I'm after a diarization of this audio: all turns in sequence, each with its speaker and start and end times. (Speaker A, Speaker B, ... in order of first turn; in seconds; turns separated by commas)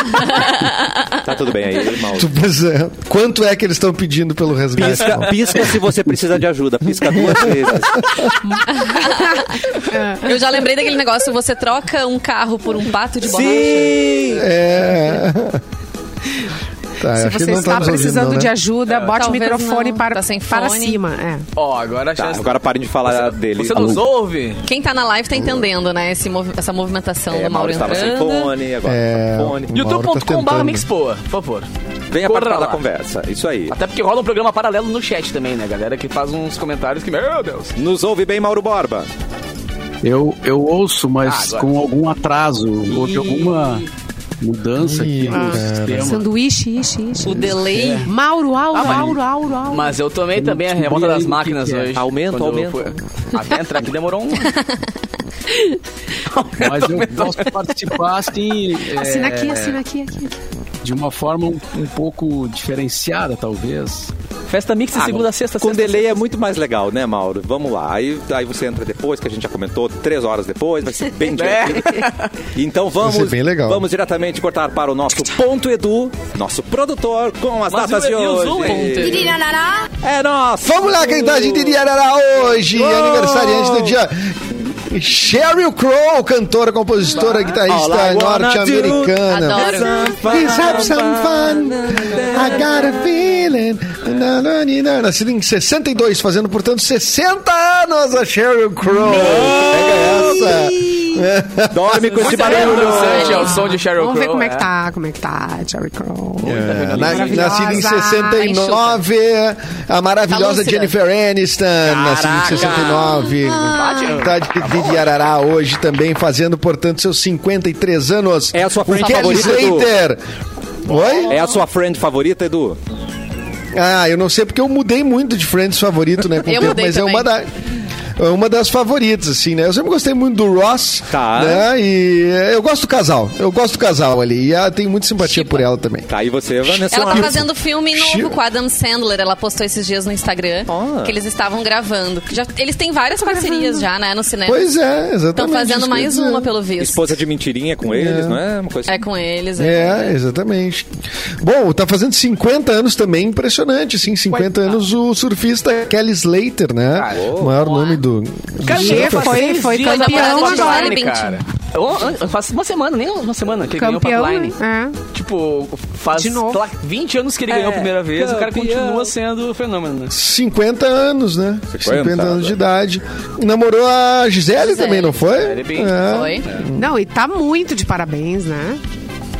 Speaker A: 0.2-1.0, Speaker B: 1.1-2.3, Speaker C: 2.1-6.1, Speaker B: 4.8-8.2, Speaker C: 7.0-8.2, Speaker D: 8.5-10.7, Speaker A: 8.7-14.1, Speaker B: 13.2-14.5, Speaker C: 14.2-15.6, Speaker C: 17.0-18.5, Speaker D: 17.1-21.4, Speaker E: 18.9-19.1, Speaker A: 19.1-21.0, Speaker E: 21.6-24.6, Speaker B: 22.2-24.1, Speaker A: 24.6-28.5, Speaker C: 25.4-25.6, Speaker B: 27.3-29.7, Speaker C: 28.8-30.9, Speaker E: 29.7-31.7, Speaker B: 32.1-33.8, Speaker E: 32.2-32.8, Speaker E: 33.7-37.7, Speaker B: 37.8-39.1, Speaker F: 40.0-43.8, Speaker E: 41.2-41.7, Speaker E: 43.0-43.6, Speaker F: 44.4-46.2, Speaker C: 44.8-46.2, Speaker D: 45.3-49.9, Speaker A: 47.2-48.1, Speaker F: 47.6-48.1, Speaker E: 48.7-49.2, Speaker F: 48.8-49.1, Speaker E: 49.7-54.6, Speaker F: 50.3-51.9, Speaker B: 51.9-52.9, Speaker A: 54.5-54.8, Speaker E: 56.3-57.5, Speaker F: 56.6-59.8, Speaker D: 58.9-60.3, Speaker F: 60.8-64.1, Speaker E: 64.5-66.2, Speaker B: 64.9-79.4, Speaker E: 71.3-72.3, Speaker C: 73.0-73.8, Speaker E: 77.7-79.3, Speaker A: 78.6-79.4, Speaker D: 79.3-79.8, Speaker B: 80.0-81.8, Speaker C: 80.6-102.6, Speaker B: 82.7-84.0, Speaker B: 87.4-93.0, Speaker A: 89.3-90.2, Speaker B: 98.9-100.7, Speaker D: 100.1-100.5, Speaker B: 101.7-103.5, Speaker E: 102.2-104.7, Speaker D: 102.4-108.6, Speaker A: 102.5-103.7, Speaker E: 106.4-107.8, Speaker C: 106.4-120.2, Speaker A: 108.3-109.0, Speaker A: 110.3-110.9, Speaker B: 111.8-113.3, Speaker E: 113.7-115.0, Speaker B: 118.5-119.9, Speaker C: 120.8-121.3, Speaker E: 120.9-121.4, Speaker B: 121.2-122.8, Speaker C: 123.7-127.5, Speaker A: 126.4-127.3, Speaker C: 128.2-136.1, Speaker B: 131.1-131.6, Speaker A: 135.2-135.6, Speaker B: 136.1-137.5, Speaker C: 136.6-138.4, Speaker A: 136.9-144.7, Speaker B: 140.7-141.1, Speaker D: 143.2-143.9, Speaker C: 144.4-146.5, Speaker A: 145.3-147.2, Speaker B: 146.8-149.0, Speaker C: 147.8-148.4, Speaker A: 148.9-150.2, Speaker C: 149.6-150.9, Speaker C: 151.4-159.5, Speaker E: 154.4-154.6, Speaker E: 156.9-158.0, Speaker B: 157.1-157.6, Speaker E: 158.6-164.6, Speaker D: 158.7-161.0, Speaker A: 159.6-161.4, Speaker D: 163.8-165.0, Speaker E: 165.1-170.1, Speaker D: 166.1-166.6, Speaker B: 167.5-169.1, Speaker C: 170.1-176.9, Speaker B: 171.7-172.6, Speaker A: 174.6-175.2, Speaker E: 175.3-176.0, Speaker A: 176.0-176.4, Speaker D: 176.7-178.8